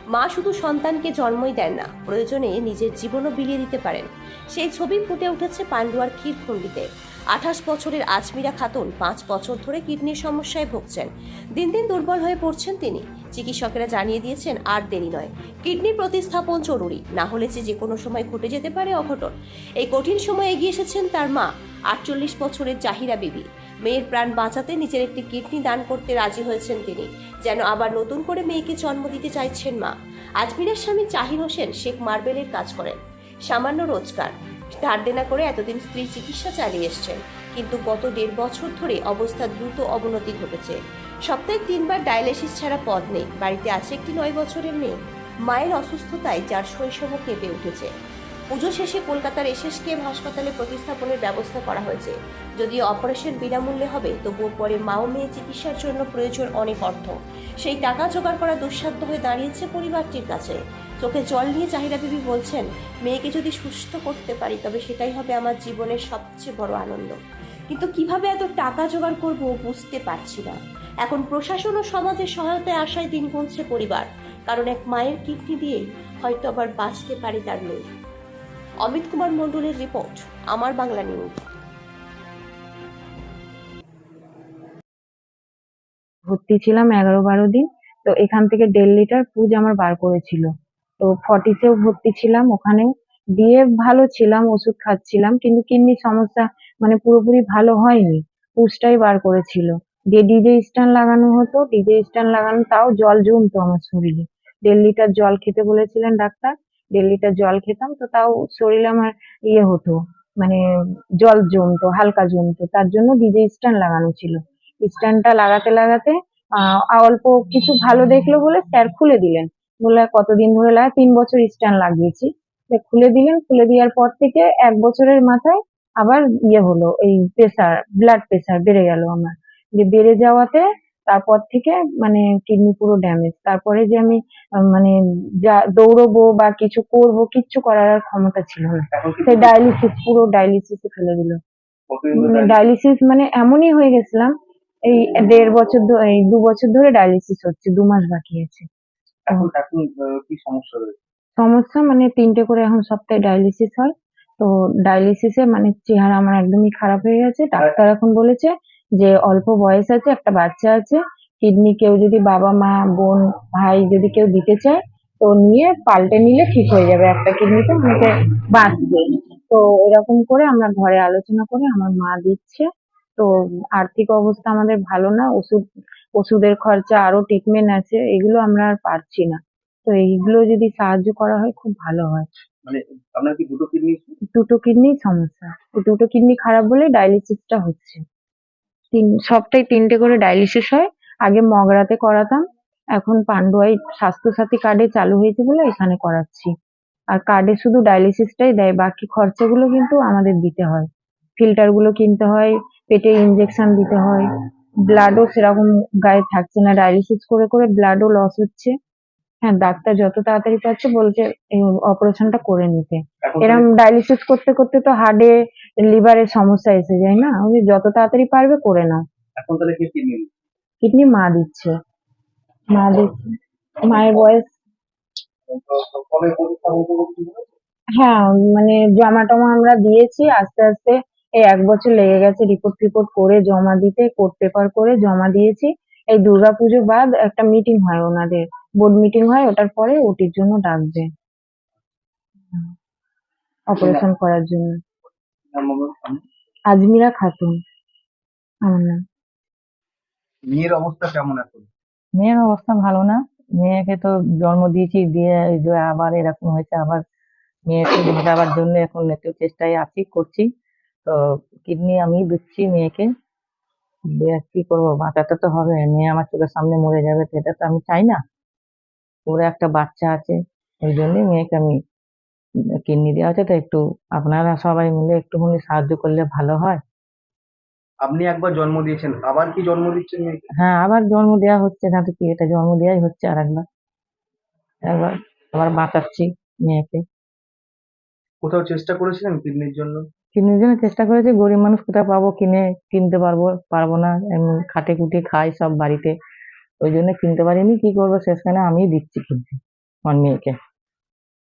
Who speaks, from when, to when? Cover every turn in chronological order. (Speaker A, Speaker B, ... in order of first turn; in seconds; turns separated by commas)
Speaker A: 0.1-40.8, Speaker A: 41.3-44.9, Speaker A: 45.5-47.9, Speaker A: 48.5-67.2, Speaker A: 67.7-77.8, Speaker A: 78.9-81.4, Speaker B: 86.3-90.5, Speaker B: 91.0-110.6, Speaker B: 111.2-134.2, Speaker B: 134.7-141.4, Speaker C: 138.9-139.6, Speaker C: 141.9-142.6, Speaker B: 142.1-144.3, Speaker B: 144.9-148.7, Speaker C: 149.3-151.0, Speaker B: 151.4-175.6, Speaker B: 176.2-182.3, Speaker C: 182.7-184.2, Speaker B: 184.3-188.0, Speaker B: 188.9-192.4, Speaker B: 193.0-196.5, Speaker B: 197.1-200.9, Speaker B: 201.4-204.2, Speaker B: 204.9-208.7, Speaker B: 209.4-219.0, Speaker C: 213.2-213.7, Speaker C: 219.4-220.3, Speaker B: 220.8-221.7, Speaker B: 222.7-223.3, Speaker B: 223.8-224.5, Speaker C: 225.5-227.4, Speaker B: 228.0-241.1, Speaker B: 243.7-244.8, Speaker C: 245.5-246.2, Speaker B: 246.7-247.6, Speaker B: 248.7-249.0, Speaker C: 250.4-251.7, Speaker D: 252.2-257.0, Speaker D: 257.7-260.5, Speaker D: 261.1-263.1, Speaker D: 264.1-268.2, Speaker D: 269.3-271.8, Speaker D: 272.8-276.8, Speaker C: 278.0-280.4, Speaker D: 280.6-283.6, Speaker D: 284.9-287.0, Speaker C: 288.4-290.0, Speaker D: 290.3-296.1, Speaker D: 296.8-300.6